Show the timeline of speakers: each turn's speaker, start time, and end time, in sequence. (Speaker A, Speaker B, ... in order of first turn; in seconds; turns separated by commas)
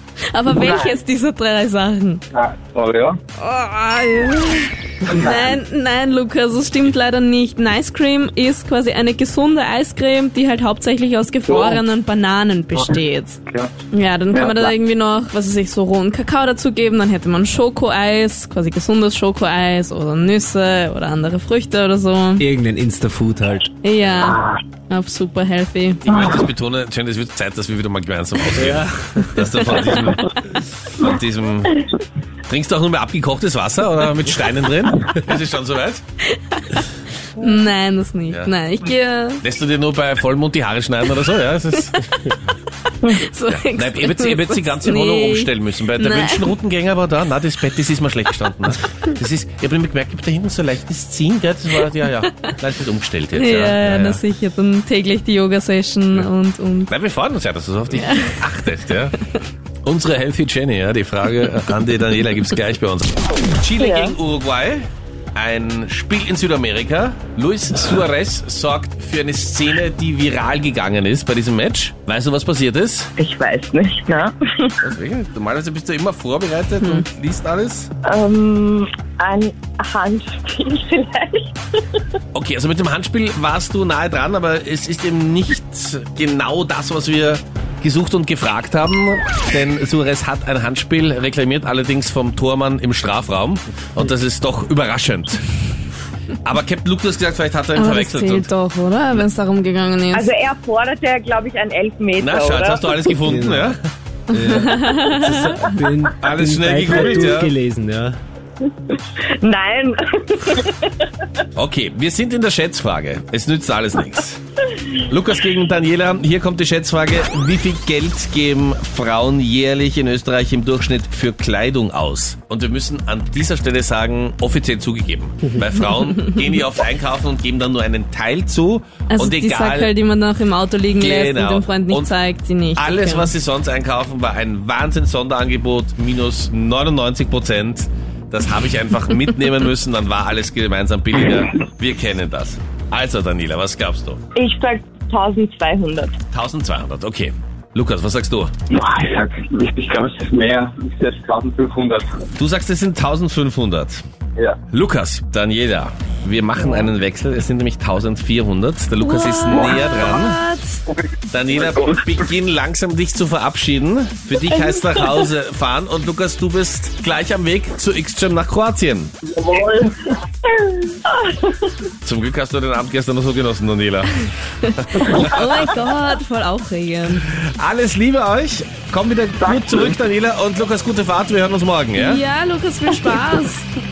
Speaker A: 0.3-2.2, Speaker B: 0.6-0.9, Speaker B: 2.3-3.2, Speaker A: 3.4-13.4, Speaker B: 5.0-5.5, Speaker B: 11.5-11.8, Speaker A: 13.9-22.4, Speaker B: 14.3-14.7, Speaker C: 22.4-23.7, Speaker A: 23.8-26.0, Speaker B: 24.2-24.6, Speaker D: 26.0-31.9, Speaker C: 28.5-29.4, Speaker D: 32.5-36.0, Speaker A: 36.2-39.4, Speaker D: 39.4-42.0, Speaker A: 41.9-42.3, Speaker A: 42.9-46.4, Speaker D: 43.5-54.2, Speaker A: 53.3-56.9, Speaker D: 56.9-59.1, Speaker A: 57.9-58.5, Speaker D: 59.8-73.1, Speaker E: 63.8-64.1, Speaker E: 73.2-74.8, Speaker D: 74.8-77.9, Speaker A: 76.8-77.0, Speaker E: 78.0-82.0, Speaker D: 82.3-95.4, Speaker D: 96.4-98.5, Speaker A: 97.7-100.3, Speaker E: 100.1-103.1, Speaker D: 102.2-103.8, Speaker C: 103.2-103.7, Speaker A: 104.3-105.5, Speaker C: 104.3-108.2, Speaker D: 106.1-107.5, Speaker E: 108.6-111.3, Speaker D: 111.5-114.4, Speaker D: 114.9-129.9, Speaker A: 129.1-133.3, Speaker D: 130.9-132.1, Speaker D: 132.8-144.2, Speaker E: 144.3-146.2, Speaker D: 146.3-148.5, Speaker B: 148.7-152.2, Speaker D: 152.4-154.0, Speaker D: 154.7-160.4, Speaker A: 159.0-160.8, Speaker B: 160.9-162.2, Speaker D: 161.3-169.1, Speaker E: 164.5-165.2, Speaker B: 169.2-170.1, Speaker E: 171.0-171.7, Speaker D: 172.0-174.2, Speaker A: 174.7-177.2, Speaker D: 174.8-175.4, Speaker D: 177.4-182.2, Speaker B: 179.4-179.9, Speaker A: 181.9-183.7